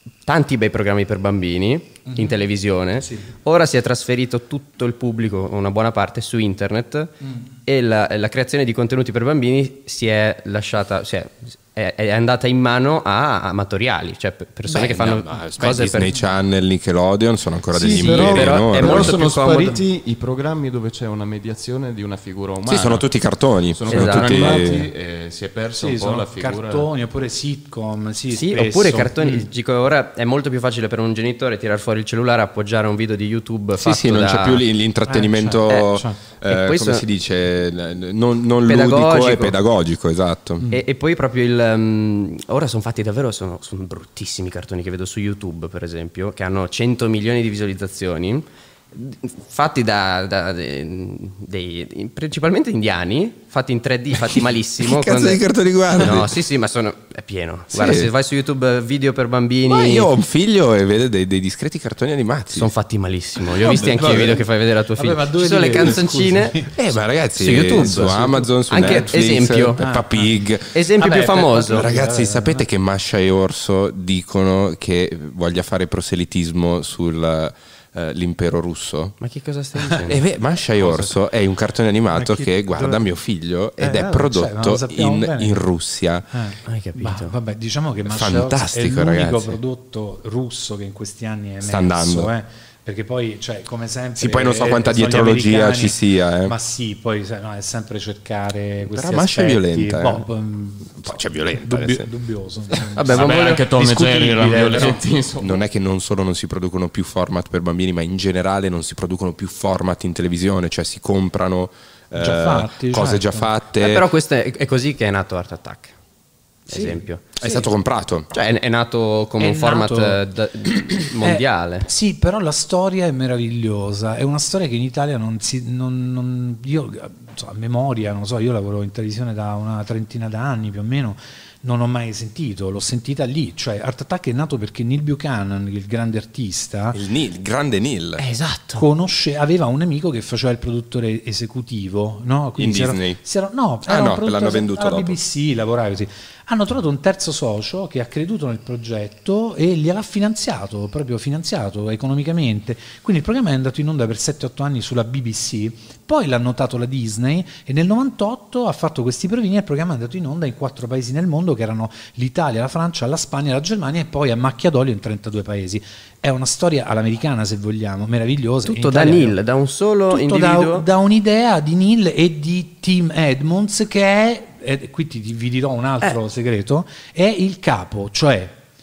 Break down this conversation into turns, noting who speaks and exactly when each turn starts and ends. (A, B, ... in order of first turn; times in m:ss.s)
0:00.2-0:16.2 A
0:02.1-0:02.4 B
0:03.0-0:03.3 B
0:14.7-0:19.2 C
0:17.7-0:23.1 D
0:17.9-0:19.8 A
0:22.7-0:24.9 C
0:23.7-0:26.9 D
0:23.9-0:24.5 A
0:24.4-0:24.7 B
0:25.8-0:29.4 B
0:28.3-0:34.6 A
0:33.8-0:40.7 C
0:35.1-0:36.2 B
0:35.7-0:37.1 A
0:38.7-0:39.6 A
0:40.7-1:00.1 A
0:54.3-0:56.4 C
0:57.7-0:58.1 C
0:59.7-1:02.7 C
1:02.5-1:06.7 A
1:03.6-1:04.4 C
1:03.6-1:06.8 B
1:06.7-1:10.8 C
1:07.4-1:09.8 A
1:07.7-1:12.7 B
1:10.7-1:11.9 A
1:11.7-1:19.2 C
1:19.2-1:20.2 A
1:19.8-1:26.3 C
1:22.1-1:23.0 B
1:23.8-1:25.7 B
1:26.3-1:45.0 B
1:26.7-1:27.3 A
1:28.1-1:29.6 C
1:31.6-1:32.3 C
1:34.2-1:36.6 C
1:38.8-1:40.2 C
1:41.0-1:42.1 C
1:43.0-1:45.6 D
1:45.4-1:54.1 C
1:52.2-1:53.5 B
1:53.8-1:55.9 A
1:56.7-1:57.3 A
1:56.7-1:57.6 B
1:57.4-1:58.3 C
1:58.3-2:01.9 A
1:59.4-2:00.2 B
2:01.2-2:17.0 B
2:16.9-2:18.3 C
2:18.2-2:18.9 A
2:18.7-2:49.4 B
2:22.6-2:23.2 C
2:23.8-2:25.2 C
2:48.7-2:50.9 A
2:50.1-2:58.6 B